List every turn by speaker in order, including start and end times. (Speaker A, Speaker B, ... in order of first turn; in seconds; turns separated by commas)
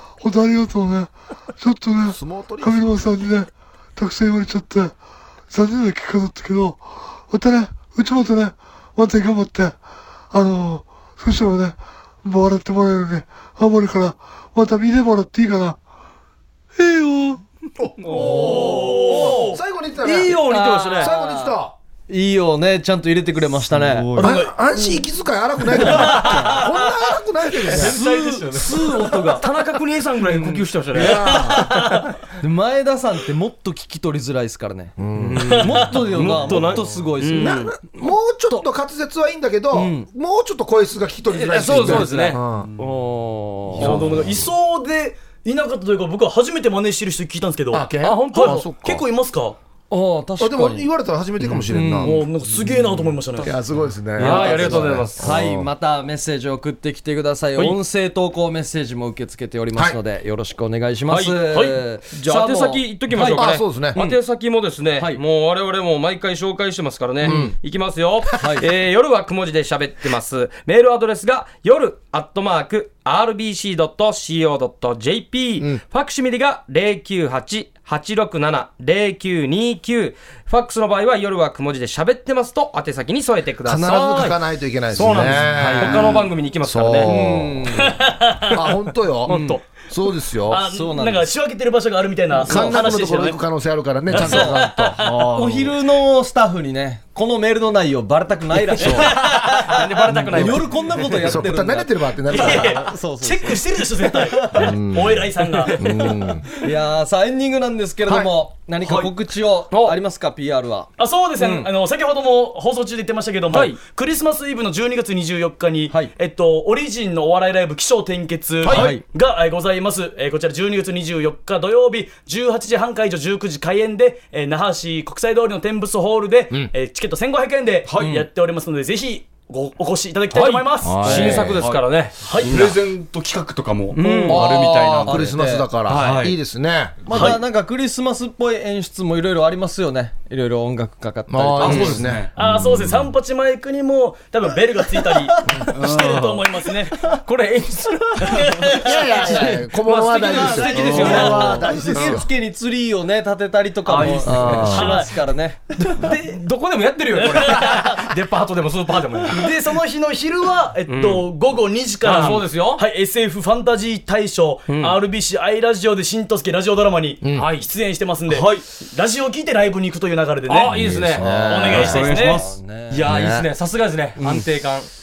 Speaker A: 0.2-5.0, Speaker B: 2.1-3.1, Speaker A: 5.5-9.8, Speaker A: 10.3-15.8, Speaker A: 16.8-17.4, Speaker C: 18.0-19.4, Speaker D: 18.1-21.1, Speaker B: 18.1-21.7, Speaker E: 18.2-19.6, Speaker C: 20.4-21.6, Speaker C: 22.1-24.1, Speaker F: 23.7-24.4, Speaker E: 24.2-24.5, Speaker B: 24.2-28.0, Speaker E: 25.9-26.7, Speaker F: 27.7-28.9, Speaker D: 27.7-31.6, Speaker C: 27.8-29.4, Speaker C: 30.3-31.1, Speaker B: 30.9-32.0, Speaker E: 31.3-32.1, Speaker C: 32.4-38.1, Speaker B: 35.0-35.9, Speaker D: 35.2-37.8, Speaker B: 37.3-42.7, Speaker C: 39.7-40.1, Speaker D: 41.3-42.4, Speaker C: 41.6-44.1, Speaker E: 43.8-49.6, Speaker B: 47.7-49.0, Speaker D: 48.0-48.7, Speaker C: 49.9-50.9, Speaker B: 50.4-52.2, Speaker C: 51.7-52.2, Speaker E: 52.0-53.5, Speaker B: 53.4-55.7, Speaker D: 54.2-55.3, Speaker C: 54.2-64.2, Speaker D: 61.1-84.4, Speaker E: 61.5-61.8, Speaker B: 63.2-64.0, Speaker B: 67.2-67.5, Speaker C: 67.2-67.5, Speaker C: 68.4-68.7, Speaker B: 83.6-87.8, Speaker D: 84.9-87.1, Speaker C: 85.0-86.2, Speaker C: 87.0-88.0, Speaker E: 87.8-88.6, Speaker B: 88.5-90.6, Speaker D: 89.2-89.6, Speaker C: 89.3-89.6, Speaker E: 90.5-93.4, Speaker C: 90.5-91.3, Speaker B: 92.4-95.0, Speaker C: 92.5-92.9, Speaker F: 94.1-95.8, Speaker E: 94.3-95.3, Speaker C: 95.3-104.5, Speaker B: 98.8-99.4, Speaker D: 99.0-101.3, Speaker B: 100.1-102.8, Speaker E: 102.3-105.7, Speaker B: 104.5-106.5, Speaker D: 105.6-106.3, Speaker C: 106.5-110.9, Speaker B: 108.0-108.3, Speaker F: 108.8-109.1, Speaker D: 109.7-110.0, Speaker E: 111.0-131.1, Speaker D: 111.4-111.6, Speaker D: 113.5-113.8, Speaker C: 118.6-119.0, Speaker F: 127.8-128.2, Speaker D: 130.3-132.8, Speaker B: 130.8-131.6, Speaker C: 131.1-131.5, Speaker F: 131.5-131.9, Speaker E: 132.2-132.5, Speaker F: 132.4-135.3, Speaker C: 133.9-135.7, Speaker D: 133.9-135.0, Speaker B: 134.3-137.0, Speaker D: 135.9-136.3, Speaker F: 135.9-136.3, Speaker F: 137.1-137.3, Speaker C: 137.1-142.1, Speaker E: 137.1-137.4, Speaker B: 141.3-142.9, Speaker F: 141.6-142.3, Speaker E: 142.4-147.0, Speaker F: 145.7-146.5, Speaker D: 147.1-152.2, Speaker E: 148.3-149.2, Speaker B: 148.7-152.3, Speaker E: 150.1-151.8, Speaker C: 150.7-156.1, Speaker D: 153.8-154.9, Speaker B: 154.2-155.0, Speaker E: 154.7-155.1, Speaker D: 155.8-159.6, Speaker E: 157.1-158.1, Speaker E: 159.3-170.7, Speaker D: 160.9-161.2, Speaker D: 162.0-162.8, Speaker D: 164.7-164.9, Speaker D: 167.3-167.7, Speaker F: 168.3-168.6, Speaker D: 170.5-171.4, Speaker B: 170.6-172.1, Speaker E: 171.3-172.4, Speaker F: 171.7-172.5, Speaker C: 172.1-173.2, Speaker D: 172.9-174.9, Speaker B: 173.0-173.5